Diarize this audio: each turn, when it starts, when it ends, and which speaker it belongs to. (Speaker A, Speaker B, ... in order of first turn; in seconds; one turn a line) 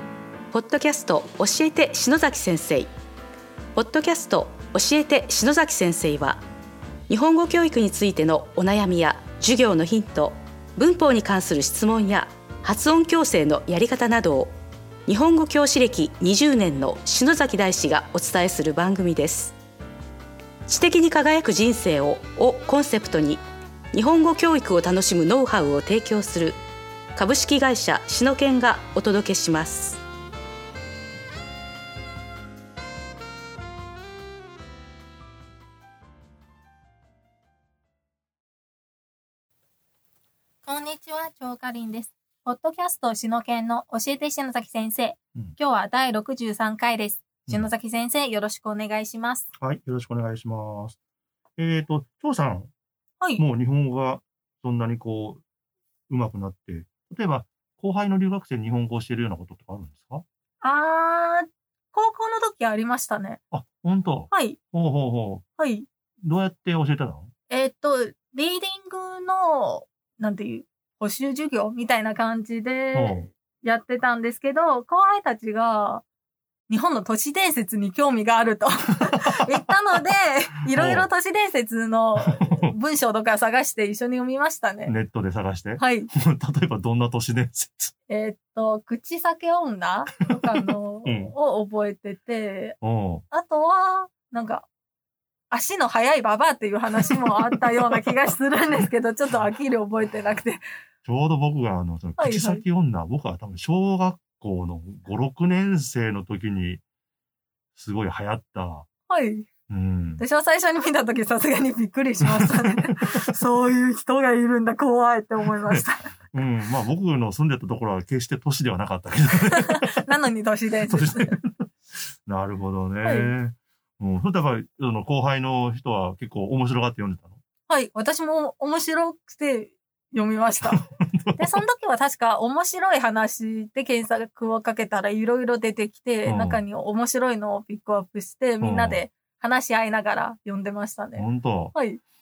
Speaker A: 0.5-2.9
Speaker A: 3.8-6.4
Speaker A: 7.1-14.5
Speaker A: 15.1-19.6
Speaker A: 20.7-26.6
Speaker A: 27.1-30.0
Speaker B: 40.6-49.5
Speaker C: 49.6-51.0
Speaker C: 51.6-52.7
Speaker C: 53.4-55.4
Speaker C: 56.1-60.2
Speaker B: 60.6-63.4
Speaker C: 63.5-65.5
Speaker B: 64.3-64.6
Speaker B: 65.6-65.9
Speaker C: 66.2-67.3
Speaker B: 67.5-76.0
Speaker C: 72.9-73.3
Speaker B: 76.7-84.9
Speaker C: 79.1-79.7
Speaker C: 80.7-81.1
Speaker C: 82.2-82.7
Speaker C: 84.8-87.9
Speaker B: 85.8-86.1
Speaker B: 88.1-92.8
Speaker C: 90.5-91.3
Speaker C: 92.8-93.2
Speaker B: 93.3-94.7
Speaker B: 95.5-100.6
Speaker C: 97.1-98.0
Speaker C: 101.0-106.8
Speaker B: 102.2-102.6
Speaker C: 107.8-108.9
Speaker B: 109.1-109.5
Speaker C: 109.7-110.2
Speaker B: 110.2-116.1
Speaker C: 112.2-113.3
Speaker C: 115.6-120.1
Speaker B: 119.5-121.4
Speaker C: 120.9-121.7
Speaker C: 122.3-127.4
Speaker B: 123.0-123.3
Speaker B: 127.7-130.8
Speaker C: 130.6-131.6
Speaker B: 131.3-142.0
Speaker C: 136.2-136.6
Speaker C: 138.6-139.1
Speaker C: 141.2-141.8